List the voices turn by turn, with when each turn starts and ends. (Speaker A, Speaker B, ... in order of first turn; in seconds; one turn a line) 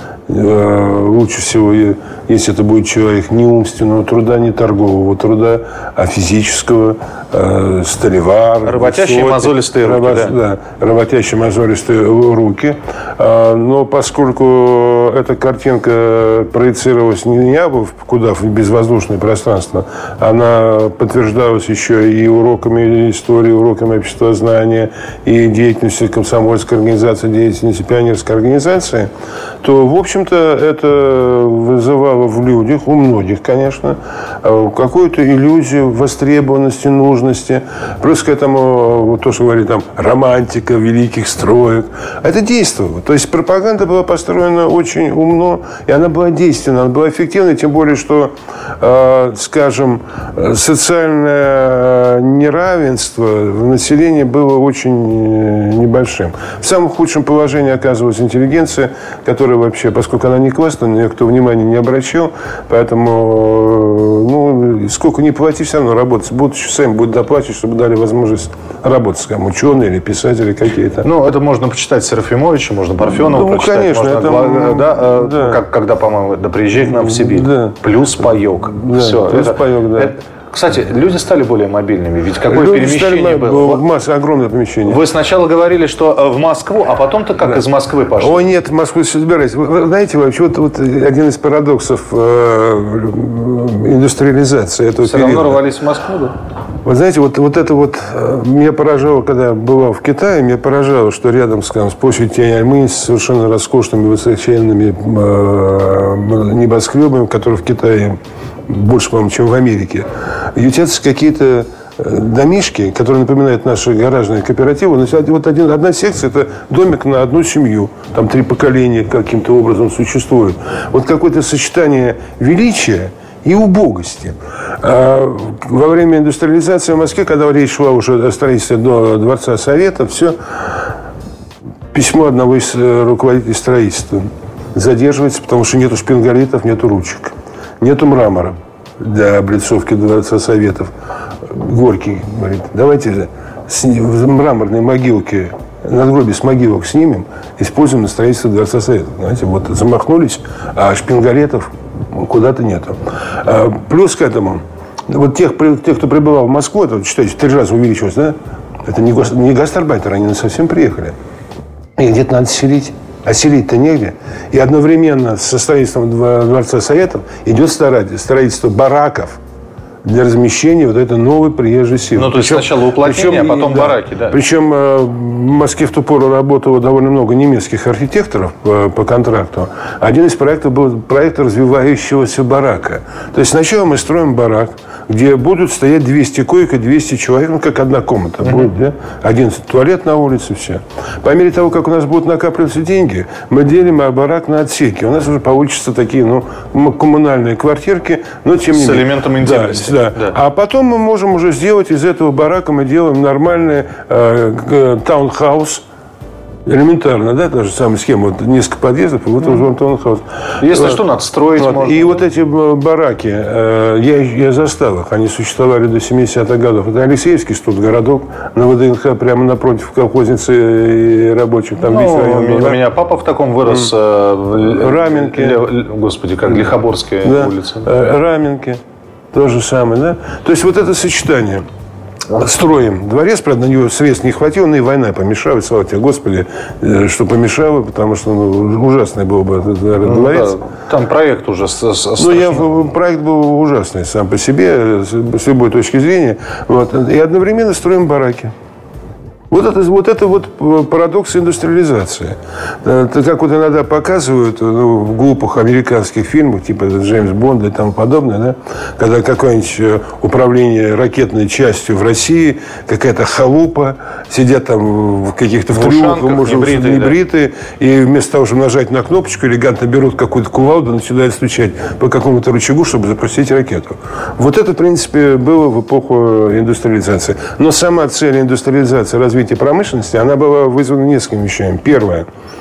Speaker A: 0.3-29.1
Speaker B: 8.6-10.3
Speaker A: 29.6-71.1
Speaker B: 71.0-83.8
Speaker A: 73.1-75.6
Speaker A: 76.9-77.8
Speaker A: 78.7-80.1
Speaker A: 82.5-85.0
Speaker B: 84.8-88.4
Speaker A: 88.2-95.6
Speaker B: 95.0-96.3
Speaker A: 96.8-130.9
Speaker A: 131.9-140.9
Speaker A: 141.4-161.1
Speaker A: 162.0-169.4
Speaker A: 170.0-205.8
Speaker B: 172.1-174.4
Speaker B: 198.7-200.3
Speaker A: 206.7-211.0
Speaker B: 210.6-212.2
Speaker A: 211.6-222.8
Speaker B: 221.8-227.9
Speaker A: 224.7-225.6
Speaker A: 227.2-228.8
Speaker A: 229.3-231.6
Speaker A: 232.3-240.5
Speaker B: 240.0-242.7
Speaker A: 242.2-248.5
Speaker A: 249.5-282.3
Speaker B: 265.7-267.2